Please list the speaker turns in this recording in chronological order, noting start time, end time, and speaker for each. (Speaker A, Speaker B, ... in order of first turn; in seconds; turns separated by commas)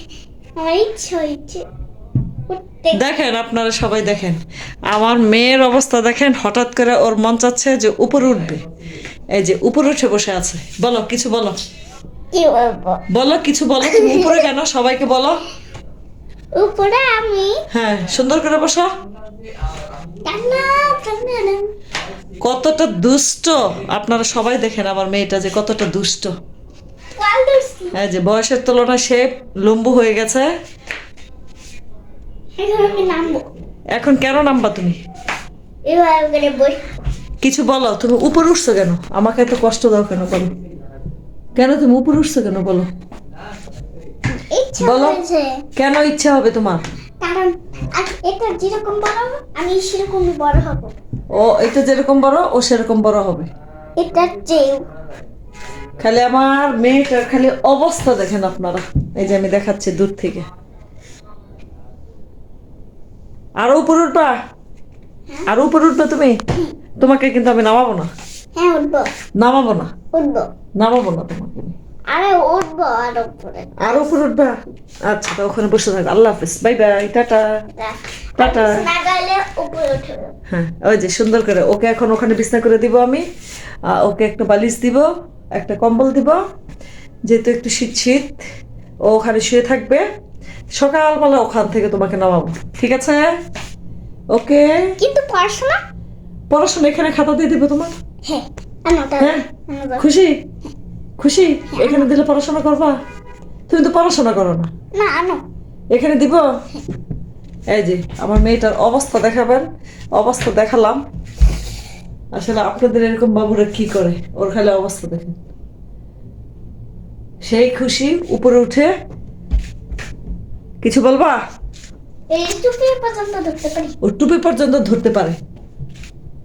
Speaker A: 0.6-1.6, Speaker A: 2.5-3.0, Speaker B: 2.9-8.6, Speaker B: 9.3-11.6, Speaker A: 12.3-13.0, Speaker B: 13.1-15.4, Speaker A: 13.8-14.5, Speaker A: 16.6-17.6, Speaker B: 17.7-18.9, Speaker A: 20.2-21.7, Speaker B: 22.4-26.3, Speaker A: 27.2-28.0, Speaker B: 27.9-30.5, Speaker A: 32.6-33.5, Speaker B: 33.9-35.0, Speaker A: 35.9-36.8, Speaker B: 37.4-40.5, Speaker B: 41.6-42.9, Speaker A: 44.5-45.6, Speaker B: 44.8-45.2, Speaker B: 45.8-46.8, Speaker A: 47.2-50.9, Speaker B: 51.3-53.5, Speaker A: 54.0-54.9, Speaker B: 56.0-60.5, Speaker B: 63.6-64.3, Speaker B: 65.5-66.4, Speaker B: 67.0-68.1, Speaker A: 68.5-69.1, Speaker B: 69.4-69.9, Speaker A: 70.1-70.5, Speaker B: 70.8-71.8, Speaker A: 72.1-74.0, Speaker B: 73.8-74.5, Speaker B: 75.1-77.5, Speaker A: 77.8-80.3, Speaker B: 78.4-78.9, Speaker B: 80.5-83.2, Speaker B: 83.9-86.4, Speaker B: 87.3-88.3, Speaker B: 89.1-90.0, Speaker B: 90.8-93.3, Speaker B: 94.3-94.7, Speaker A: 95.0-95.8, Speaker B: 96.5-97.9, Speaker A: 98.2-100.1, Speaker B: 99.2-99.5, Speaker B: 100.0-100.4, Speaker B: 101.2-103.0, Speaker A: 101.7-102.1, Speaker B: 103.7-104.7, Speaker A: 104.9-105.4, Speaker B: 105.9-106.5, Speaker B: 107.7-111.0, Speaker B: 112.3-115.4, Speaker B: 117.4-118.9, Speaker B: 120.8-121.4, Speaker A: 122.3-124.0, Speaker B: 124.0-125.4